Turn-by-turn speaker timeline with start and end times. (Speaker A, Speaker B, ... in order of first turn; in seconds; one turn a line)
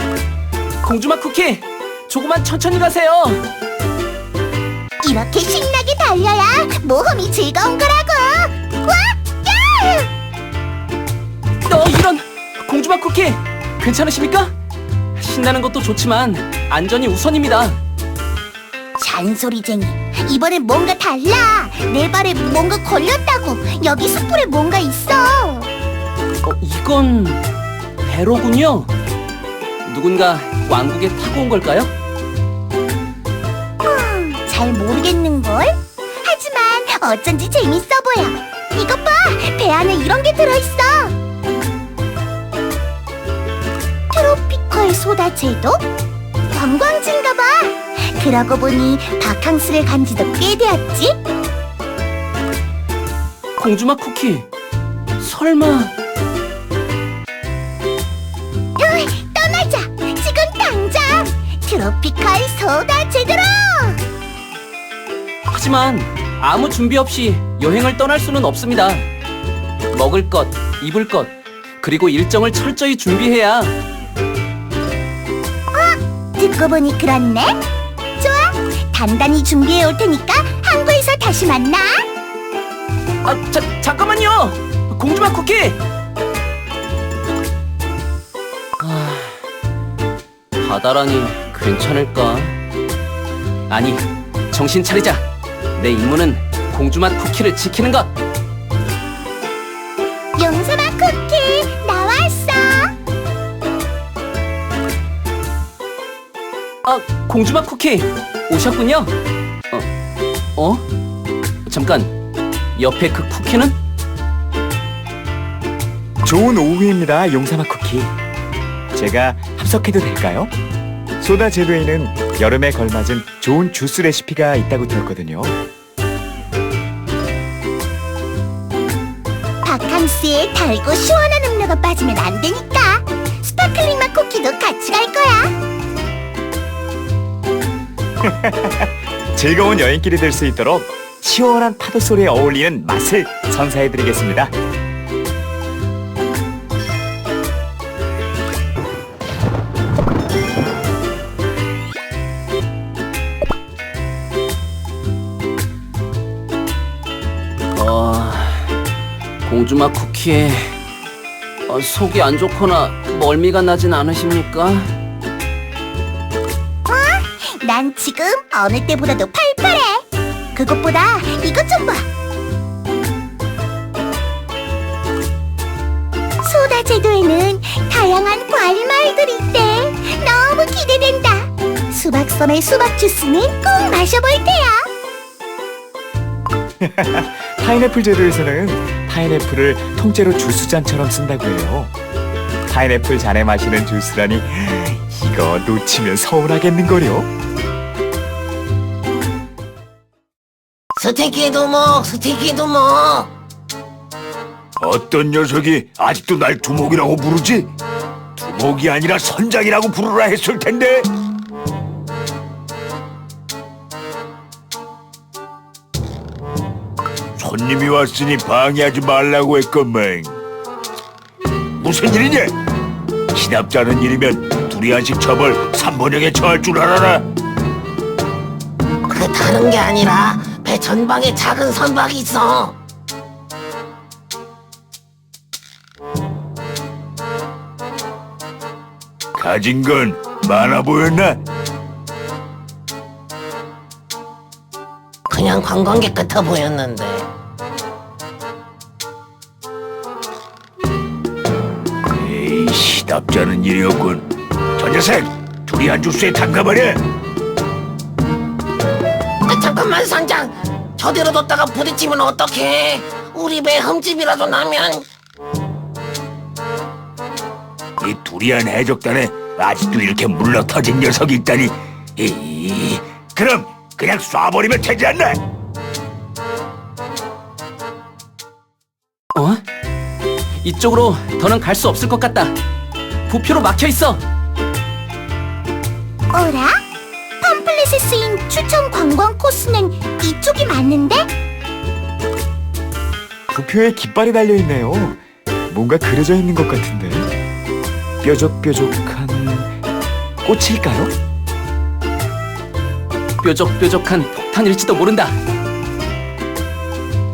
Speaker A: 0.8-3.4
Speaker B: 5.0-10.1
Speaker A: 11.7-14.5
Speaker A: 15.2-17.8
Speaker B: 19.0-25.7
Speaker A: 26.4-27.4
Speaker A: 28.0-28.9
Speaker A: 29.9-31.9
Speaker B: 33.8-41.1
Speaker B: 44.1-45.8
Speaker B: 46.5-51.2
Speaker A: 53.6-54.5
Speaker A: 55.2-55.9
Speaker B: 58.8-64.0
Speaker A: 65.5-69.1
Speaker A: 69.9-73.8
Speaker B: 75.7-77.6
Speaker B: 78.2-82.1
Speaker A: 83.2-85.8
Speaker A: 88.8-89.4
Speaker A: 90.6-92.6
Speaker A: 93.7-98.2
Speaker B: 100.4-102.9
Speaker A: 106.8-109.2
Speaker A: 110.6-110.8
Speaker A: 111.7-112.1
Speaker A: 112.8-113.8
Speaker C: 116.2-118.1
Speaker C: 118.9-120.5
Speaker C: 121.2-125.6
Speaker B: 129.6-135.5
Speaker C: 138.2-144.5
Speaker A: 157.7-158.7
Speaker A: 159.4-160.8
Speaker A: 161.7-164.9
Speaker B: 166.9-172.1
Speaker B: 176.4-184.9
Speaker C: 186.8-191.9
Speaker C: 192.7-197.3
Speaker D: 201.0-203.3
Speaker E: 204.8-207.7
Speaker E: 208.3-211.1
Speaker E: 217.4-220.4
Speaker E: 221.8-222.6
Speaker E: 223.3-227.3
Speaker D: 229.1-232.8
Speaker E: 239.3-241.4
Speaker D: 245.3-247.3
Speaker E: 252.1-257.0
Speaker D: 259.5-265.1
Speaker E: 268.0-275.4
Speaker A: 279.3-279.6
Speaker A: 280.6-282.6
Speaker A: 283.3-284.2
Speaker B: 286.3-286.8
Speaker B: 287.4-291.3
Speaker C: 293.5-297.3
Speaker C: 298.2-299.8
Speaker C: 300.4-301.1
Speaker A: 303.4-305.4